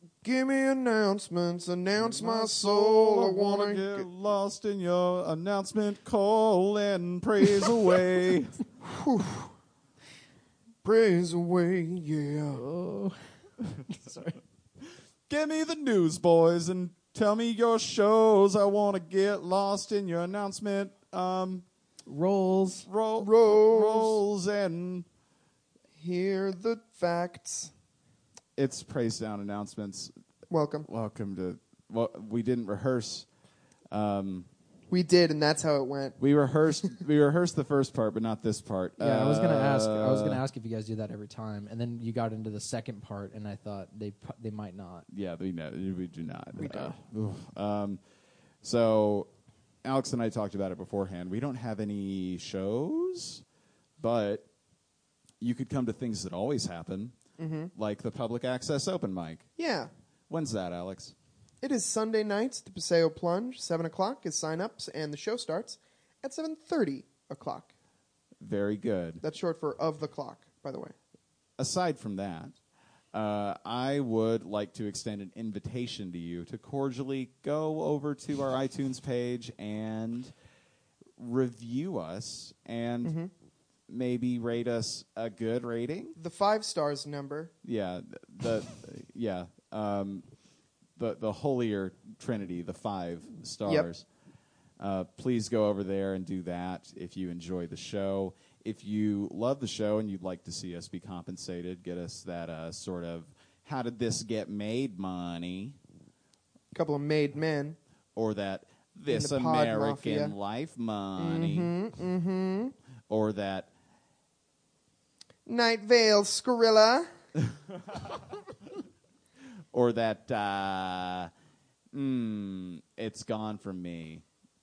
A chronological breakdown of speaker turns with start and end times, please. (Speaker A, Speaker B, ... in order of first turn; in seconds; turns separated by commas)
Speaker A: 0.2-4.0, Speaker B: 1.9-8.6, Speaker A: 8.9-9.5, Speaker A: 10.8-12.6, Speaker C: 12.6-13.2, Speaker C: 13.7-14.3, Speaker B: 15.3-21.6, Speaker C: 22.1-22.9, Speaker B: 22.8-25.1, Speaker A: 23.2-24.1, Speaker A: 26.0-27.7, Speaker B: 28.6-30.1, Speaker A: 30.5-30.9, Speaker B: 30.9-33.3, Speaker B: 33.9-34.5, Speaker A: 34.9-36.1, Speaker B: 36.2-40.4, Speaker C: 39.0-45.1, Speaker B: 45.1-48.0, Speaker B: 48.6-49.3, Speaker B: 49.8-53.4, Speaker B: 54.0-54.5, Speaker B: 55.4-57.1, Speaker A: 57.4-57.7, Speaker B: 57.8-59.5, Speaker A: 59.6-59.9, Speaker B: 60.3-61.1, Speaker A: 61.6-67.7, Speaker B: 68.4-69.2, Speaker A: 69.2-70.9, Speaker B: 71.6-72.5, Speaker B: 73.1-80.3, Speaker B: 81.2-83.2, Speaker B: 83.9-86.2, Speaker A: 86.2-87.5, Speaker B: 87.6-90.3, Speaker B: 91.0-94.0, Speaker B: 94.8-105.8, Speaker A: 106.8-107.8, Speaker B: 108.2-111.7, Speaker A: 109.1-110.3, Speaker A: 111.2-112.7, Speaker B: 113.1-113.7, Speaker A: 115.5-117.0, Speaker B: 119.7-121.3, Speaker B: 121.9-124.2